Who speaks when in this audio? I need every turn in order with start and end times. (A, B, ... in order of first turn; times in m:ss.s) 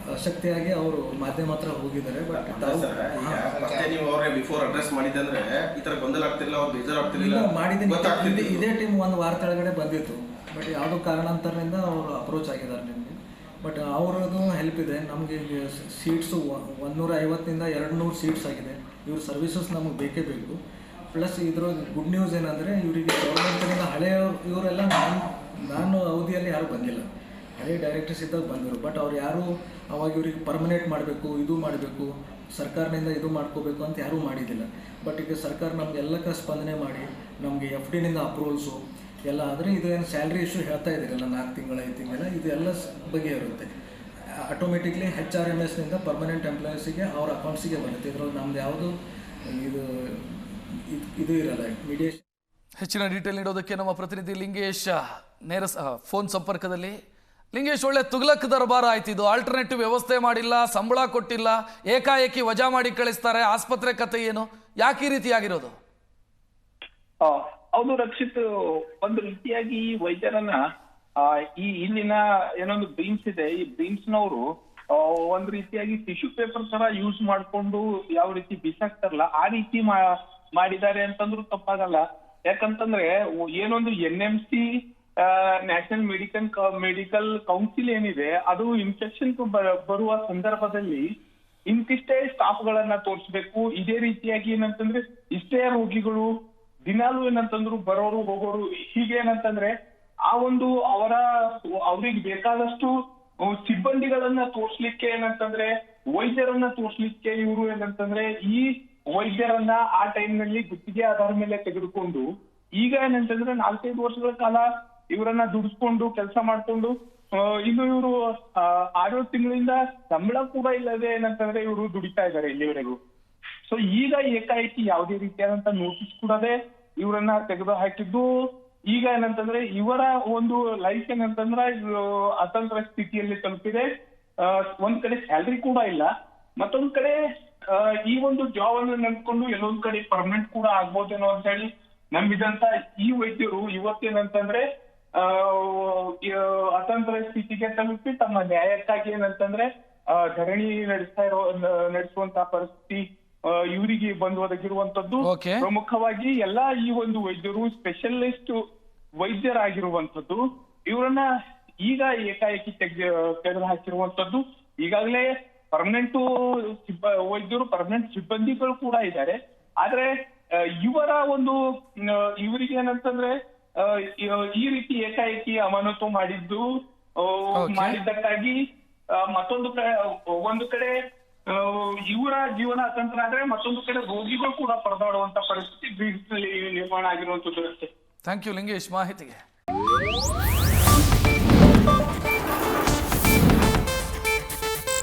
0:00.2-0:03.9 A
0:02.4-0:08.7 B
0:07.0-0:20.6 A
0:21.1-0:27.0 A
0:27.6-0:43.7 A
0:44.5-0:48.9 A
0:49.5-0:52.2 A
0:52.8-0:57.0 C
0:57.5-1:05.8 C
1:07.2-1:08.4 D
1:09.0-1:10.6 D
1:11.2-1:14.4 D
1:14.9-1:24.6 D
1:25.2-1:31.0 D
1:31.7-1:36.3 D
1:36.9-1:39.7 D
1:40.3-1:41.2 D
1:41.8-1:42.9 D
1:43.4-1:52.2 D
1:52.8-2:03.0 D
2:03.7-2:08.3 D
2:08.9-2:13.9 D
2:14.4-2:17.2 D
2:17.7-2:24.6 D
2:25.2-2:38.6 D
2:35.2-2:35.6 C
2:39.2-2:41.2 D
2:41.8-2:50.1 D
2:50.8-2:56.6 D
2:57.2-2:58.6 D
2:57.6-2:58.0 C
2:59.1-3:01.0 D
3:01.5-3:07.9 D
3:08.2-3:09.4 C